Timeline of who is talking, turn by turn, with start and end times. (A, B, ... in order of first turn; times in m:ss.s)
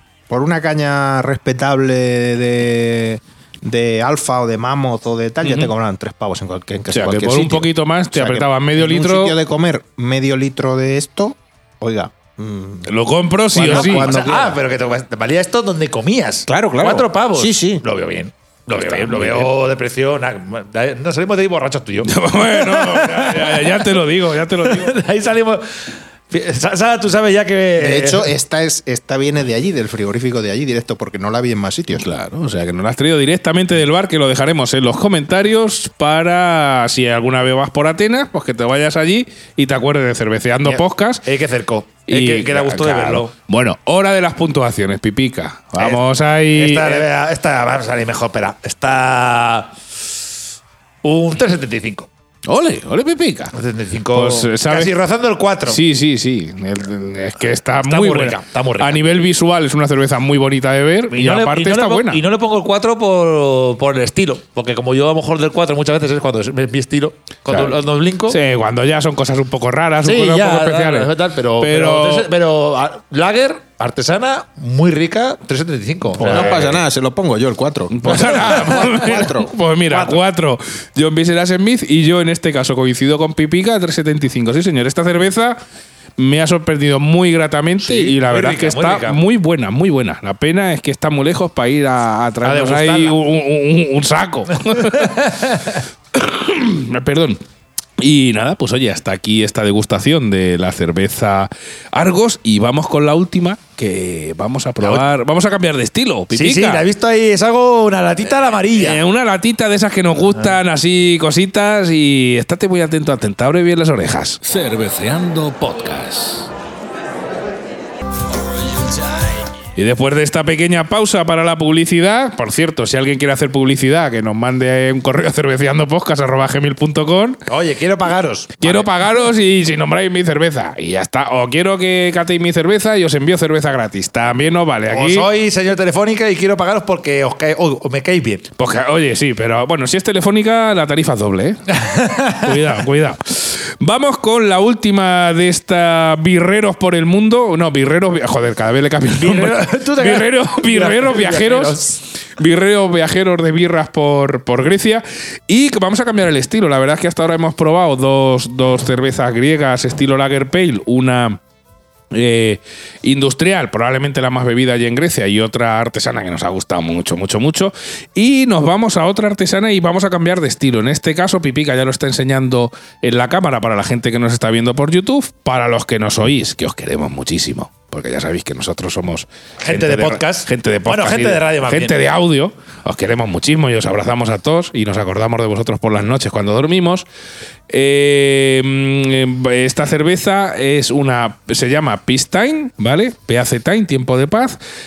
0:00.3-0:12.9 A
0:05.4-0:05.7 B
0:06.9-0:09.4 B
0:12.9-0:14.1 B
0:13.5-0:14.6 A
0:13.6-0:28.3 C
0:16.5-0:17.8 A
0:19.0-0:19.5 B
0:22.0-0:25.0 B
0:27.8-0:32.1 A
0:31.9-0:41.2 B
0:40.6-0:43.3 C
0:42.1-0:47.0 B
0:45.8-0:46.0 C
0:46.5-0:49.8 C
0:51.0-0:52.1 C
0:52.4-0:53.5 B
0:53.5-0:55.8 C
0:54.1-0:54.9 B
0:55.7-1:02.2 B
0:57.8-0:59.0 C
1:01.1-1:08.4 C
1:07.5-1:07.8 B
1:08.3-1:12.3 B
1:10.0-1:16.7 C
1:16.2-1:16.8 B
1:16.2-1:19.5 A
1:17.9-1:25.6 B
1:26.2-1:35.6 B
1:27.8-1:29.2 C
1:32.4-1:33.2 C
1:34.7-1:35.8 C
1:36.1-1:37.4 B
1:38.0-1:46.8 B
1:46.3-1:49.0 C
1:48.7-1:54.4 B
1:54.4-1:56.5 D
1:59.8-2:07.4 B
2:07.5-2:08.9 C
2:08.6-2:15.3 B
2:14.9-2:18.5 C
2:18.6-2:21.8 B
2:21.7-2:22.6 C
2:22.3-2:31.8 B
2:29.2-2:32.0 C
2:32.4-2:41.4 B
2:42.1-3:07.0 B
2:59.6-3:02.0 C
3:07.7-3:14.6 B